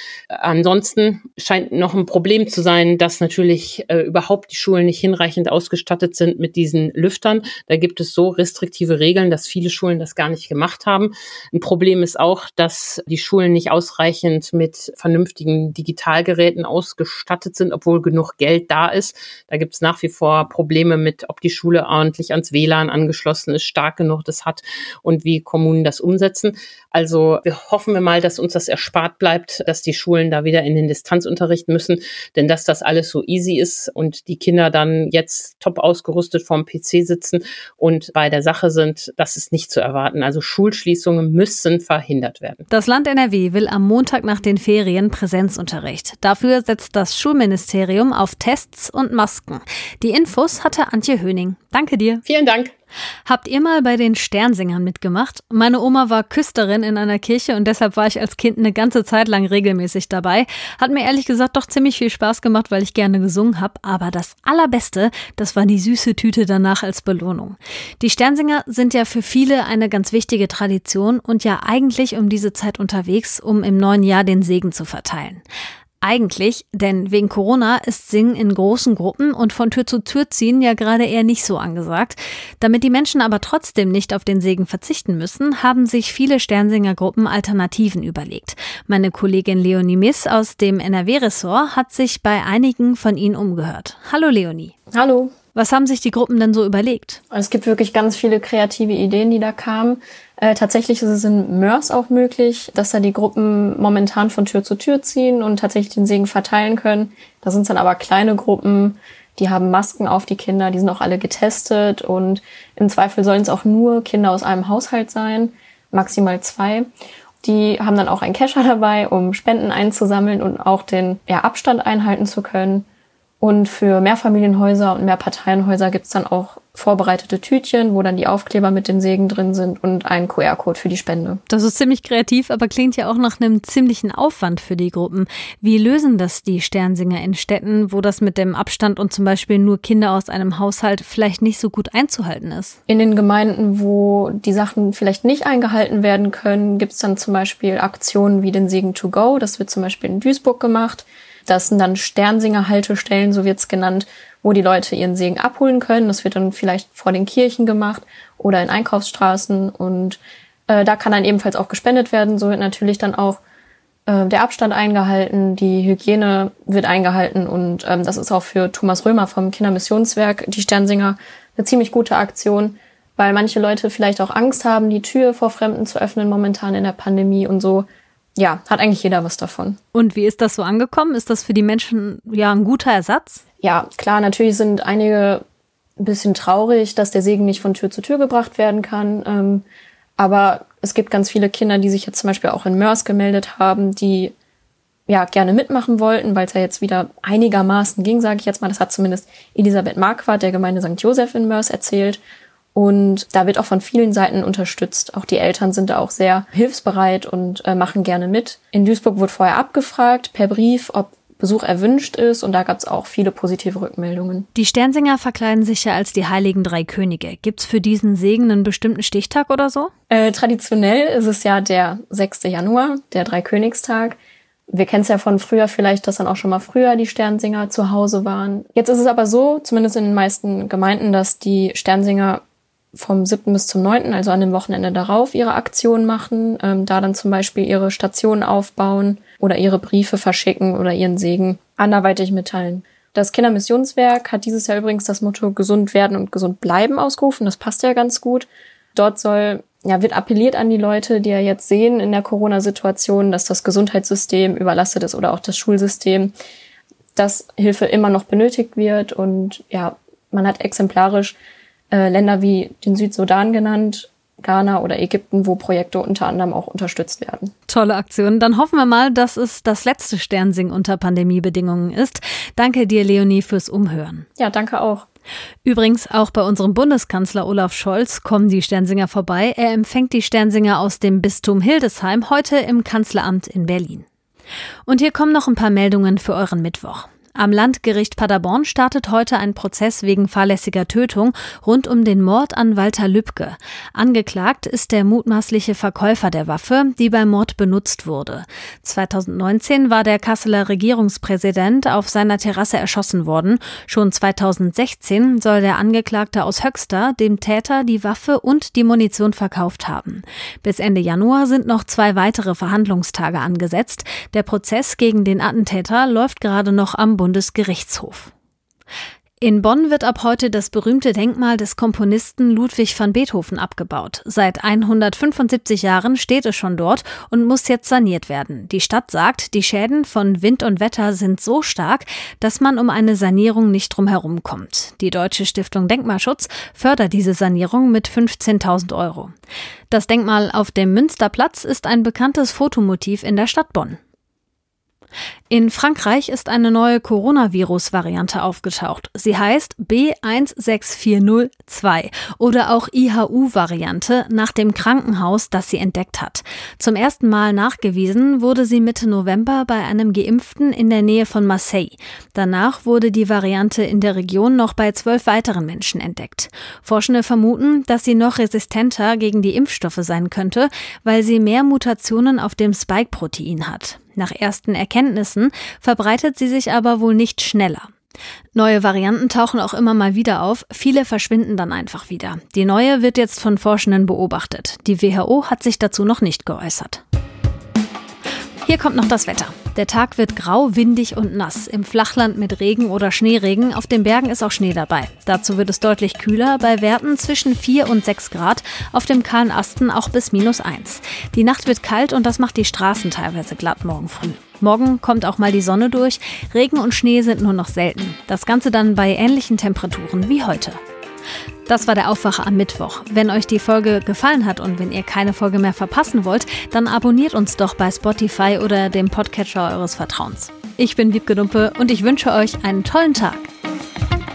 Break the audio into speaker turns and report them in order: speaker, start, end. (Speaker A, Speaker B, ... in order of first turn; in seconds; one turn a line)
Speaker A: 0.3-42.6
Speaker B: 42.7-52.2
Speaker A: 52.2-52.7
Speaker B: 53.2-75.4
Speaker B: 76.0-94.7
Speaker C: 94.9-95.3
Speaker B: 95.5-97.2
Speaker C: 97.3-116.9
Speaker C: 117.4-122.8
Speaker C: 123.4-131.4
Speaker B: 131.5-142.8
Speaker C: 142.9-163.4
Speaker C: 164.1-177.9
Speaker C: 178.4-179.8
Speaker B: 179.9-183.4
Speaker C: 183.6-185.4
Speaker C: 186.0-189.6
Speaker C: 190.2-194.3
Speaker C: 195.1-202.2
Speaker C: 202.8-214.5
Speaker B: 214.5-219.9
Speaker C: 220.1-224.2
Speaker C: 224.7-232.4
Speaker C: 232.9-256.3
Speaker C: 257.1-261.4
Speaker C: 261.9-267.5
Speaker B: 267.7-274.2
Speaker C: 274.4-275.1
Speaker B: 275.6-284.0
Speaker B: 284.9-318.3
Speaker B: 319.4-339.3
Speaker B: 339.9-344.0
Speaker B: 345.5-377.9
Speaker B: 378.6-387.0
Speaker B: 388.6-410.8
Speaker B: 411.7-423.5